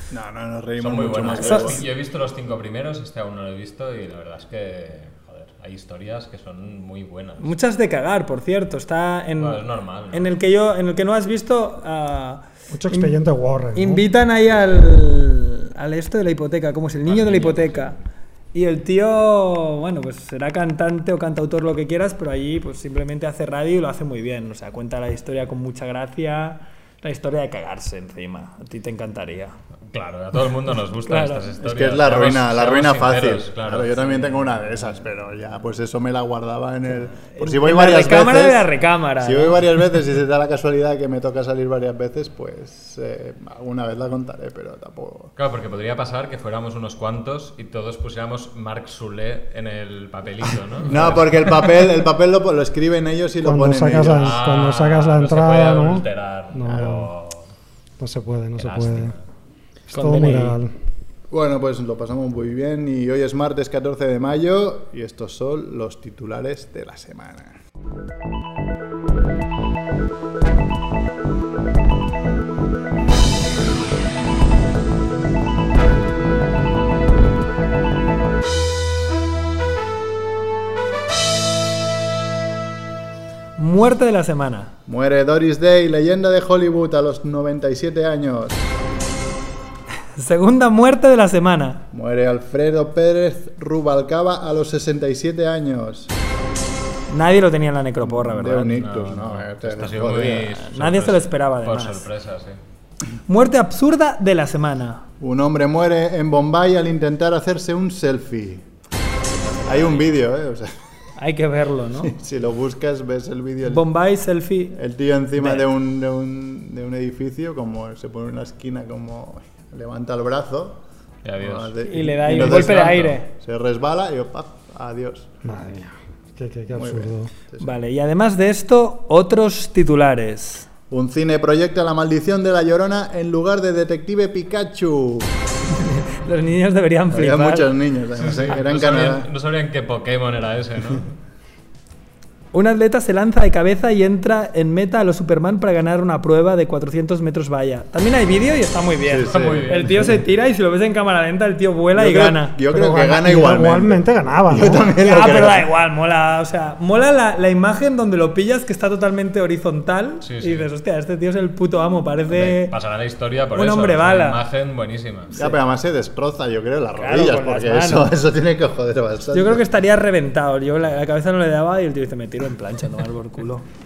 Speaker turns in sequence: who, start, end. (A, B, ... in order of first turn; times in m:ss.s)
0:00.1-0:01.9 A
0:00.8-0:07.5 B
0:01.4-0:01.8 C
0:07.4-0:13.1 C
0:09.4-0:10.3 B
0:12.7-0:14.1 D
0:13.8-0:18.0 C
0:17.1-0:17.9 B
0:18.5-0:29.5 C
0:29.9-0:34.8 B
0:31.1-0:31.5 C
0:31.6-0:38.7 A
0:37.3-0:39.6 C
0:39.2-0:45.3 A
0:45.4-0:51.5 B
0:50.9-0:54.4 A
0:53.4-0:57.1 D
0:54.1-0:57.4 B
0:56.7-0:57.1 A
0:58.0-0:59.1 D
0:58.6-0:59.2 B
0:59.9-1:00.6 C
0:59.9-1:00.7 D
1:01.3-1:07.6 A
1:23.6-1:24.7 C
1:24.9-1:28.8 A
1:30.2-1:31.9 C
1:31.9-1:36.1 A
1:37.1-1:38.8 C
1:38.0-1:40.5 A
1:38.7-1:42.6 B
1:40.5-1:42.1 C
1:43.3-1:45.0 C
1:45.2-1:48.6 A
1:49.3-1:50.2 B
1:49.6-1:50.7 A
1:51.2-1:52.1 C
1:52.0-1:53.9 A
1:53.6-1:54.8 C
1:54.7-2:00.8 A
1:55.4-1:55.6 C
2:01.2-2:03.2 B
2:01.4-2:05.3 A
2:01.8-2:03.3 C
2:05.4-2:07.3 D
2:06.7-2:07.7 A
2:07.6-2:10.7 C
2:10.9-2:15.3 A
2:15.9-2:17.7 C
2:17.1-2:19.3 A
2:18.2-2:21.1 B
2:22.5-2:32.6 C
2:29.0-2:30.2 A
2:29.2-2:30.1 B
2:31.9-2:35.7 A
2:32.7-2:34.8 D
2:35.0-2:42.8 C
2:40.2-2:40.7 B
2:42.3-2:45.4 B
2:43.5-2:44.4 C
2:45.3-2:49.6 A
2:47.0-2:48.1 C
2:49.3-2:53.6 C